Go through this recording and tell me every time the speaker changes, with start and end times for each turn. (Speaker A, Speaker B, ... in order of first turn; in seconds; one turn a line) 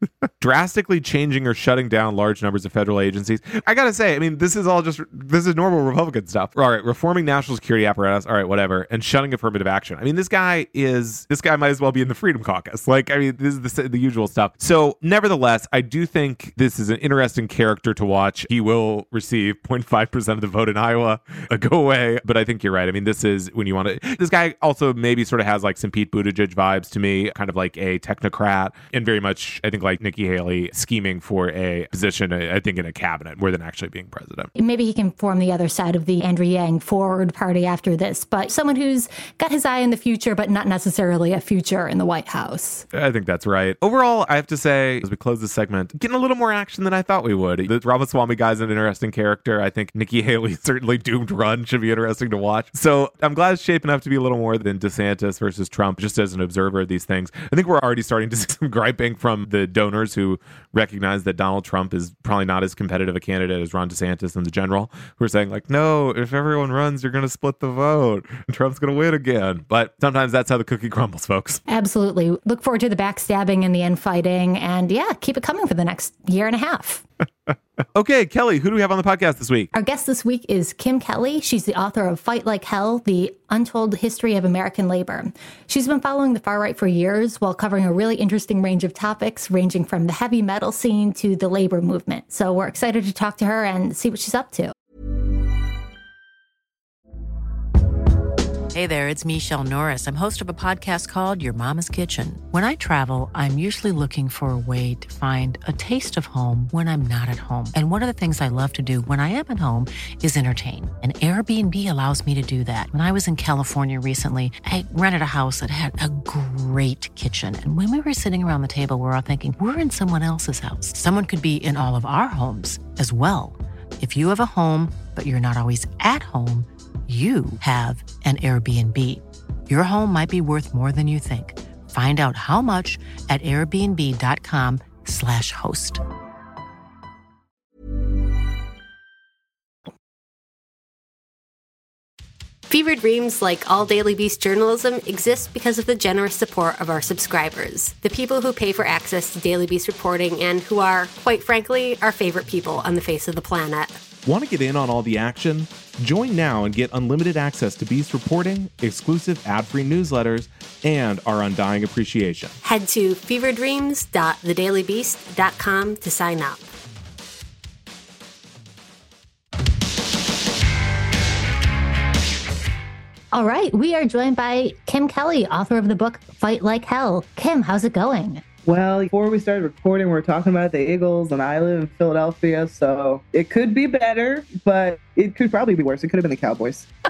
Speaker A: 0.4-34.5
Speaker B: 34.5-42.8
Speaker A: 42.9-71.6
Speaker B: 71.7-77.0
Speaker A: 77.5-79.7
Speaker B: 79.7-94.7
Speaker C: 98.7-136.0
Speaker D: 142.7-154.0
Speaker A: 154.2-162.6
Speaker D: 162.6-166.7
Speaker B: 173.3-178.4
Speaker E: 178.6-186.9